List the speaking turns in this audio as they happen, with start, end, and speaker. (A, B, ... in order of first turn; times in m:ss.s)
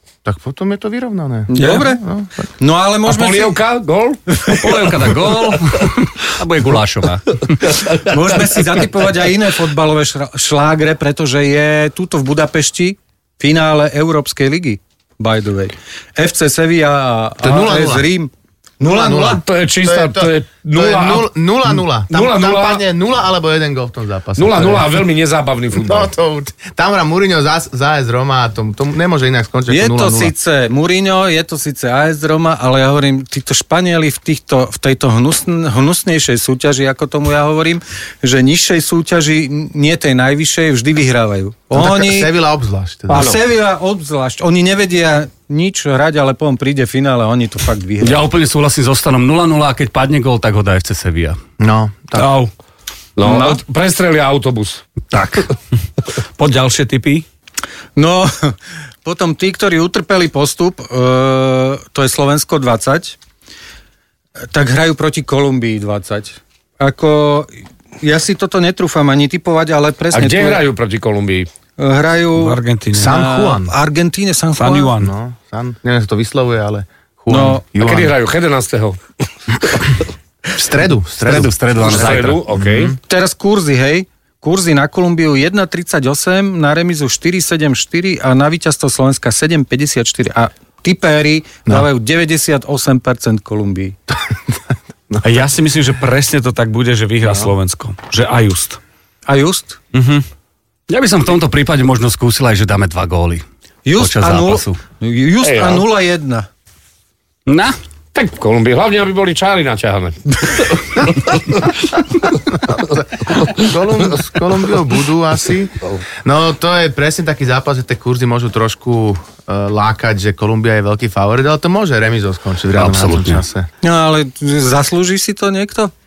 0:00.2-0:02.5 A
0:01.5-0:02.0 B
0:01.6-0:01.8 C
0:02.6-0:03.6 B
0:03.0-0:05.6 D
0:04.6-0:07.3 E
0:07.5-0:08.3 D
0:08.0-0:19.4 B
0:17.4-0:18.1 A
0:18.8-0:24.9 A
0:19.2-0:21.3 D
0:22.0-0:22.8 D
0:24.4-0:26.1 D
0:25.7-0:30.3 A
0:29.7-0:42.3 B
0:41.7-0:43.3 A
0:43.1-0:48.2 B
0:43.1-0:43.4 D
0:48.0-0:51.4 E
0:51.6-0:52.3 A
0:52.2-0:52.5 C
0:53.2-0:54.8 D
0:53.2-0:53.5 B
0:56.4-0:57.2 C
0:58.0-1:03.2 B
1:04.5-1:10.6 B
1:10.1-1:11.5 D
1:11.8-1:15.0 B
1:12.4-1:13.1 C
1:12.9-1:13.7 A
1:14.6-1:15.1 C
1:15.0-1:18.1 A
1:17.3-1:17.6 B
1:17.8-1:19.0 D
1:19.6-1:19.9 D
1:20.5-1:23.0 A
1:21.2-1:22.4 E
1:21.8-1:22.9 D
1:23.1-1:34.0 B
1:35.2-1:38.8 C
1:39.2-1:39.8 B
1:39.9-1:40.2 C
1:40.9-1:43.4 E
1:43.8-1:46.5 B
1:44.0-1:44.8 E
1:45.4-1:45.8 D
1:47.5-1:47.7 E
1:48.1-1:51.7 D
1:52.3-1:55.7 A
1:56.2-2:03.7 A
2:02.8-2:03.4 E
2:03.8-2:05.9 B